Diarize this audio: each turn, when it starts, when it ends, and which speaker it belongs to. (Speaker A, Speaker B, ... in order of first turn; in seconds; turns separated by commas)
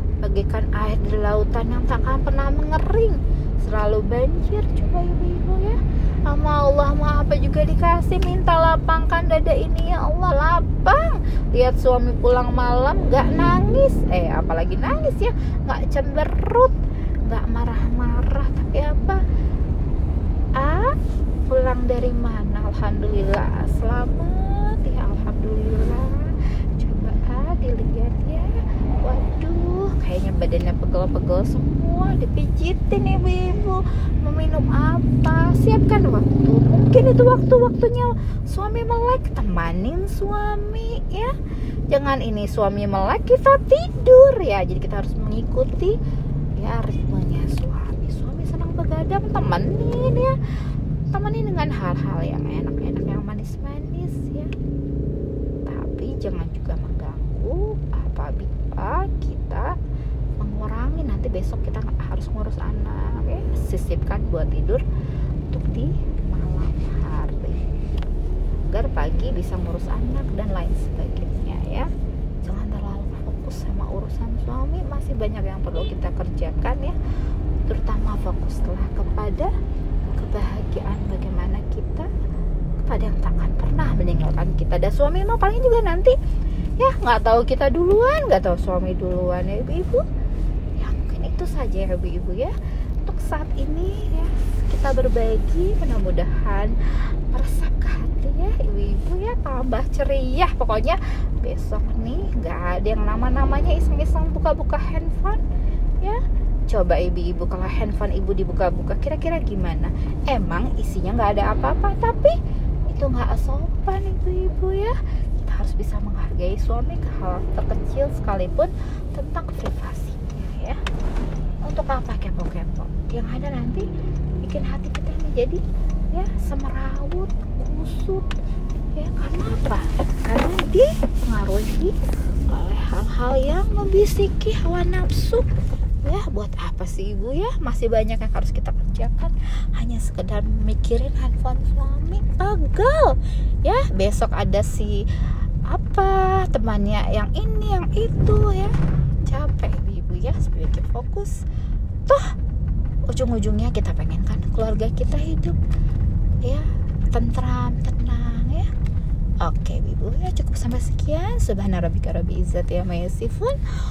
Speaker A: 0.2-16.7, Speaker A: 17.2-19.2, Speaker A: 20.6-20.9, Speaker A: 21.5-41.3, Speaker A: 41.9-46.0, Speaker A: 46.6-50.3, Speaker A: 51.1-54.5, Speaker A: 55.6-59.6, Speaker A: 60.4-64.8, Speaker A: 65.5-67.7, Speaker A: 68.7-71.9, Speaker A: 72.4-77.0, Speaker A: 77.6-79.5, Speaker A: 80.1-82.1, Speaker A: 82.8-86.1, Speaker A: 86.8-90.0, Speaker A: 90.8-92.5, Speaker A: 93.0-96.7, Speaker A: 97.3-105.4, Speaker A: 106.0-112.3, Speaker A: 112.9-120.8, Speaker A: 121.7-123.8, Speaker A: 124.4-125.6, Speaker A: 126.1-128.3, Speaker A: 128.9-131.9, Speaker A: 132.5-135.4, Speaker A: 136.0-145.0, Speaker A: 145.7-148.7, Speaker A: 149.3-151.4, Speaker A: 153.1-155.6, Speaker A: 156.4-158.7, Speaker A: 159.4-163.6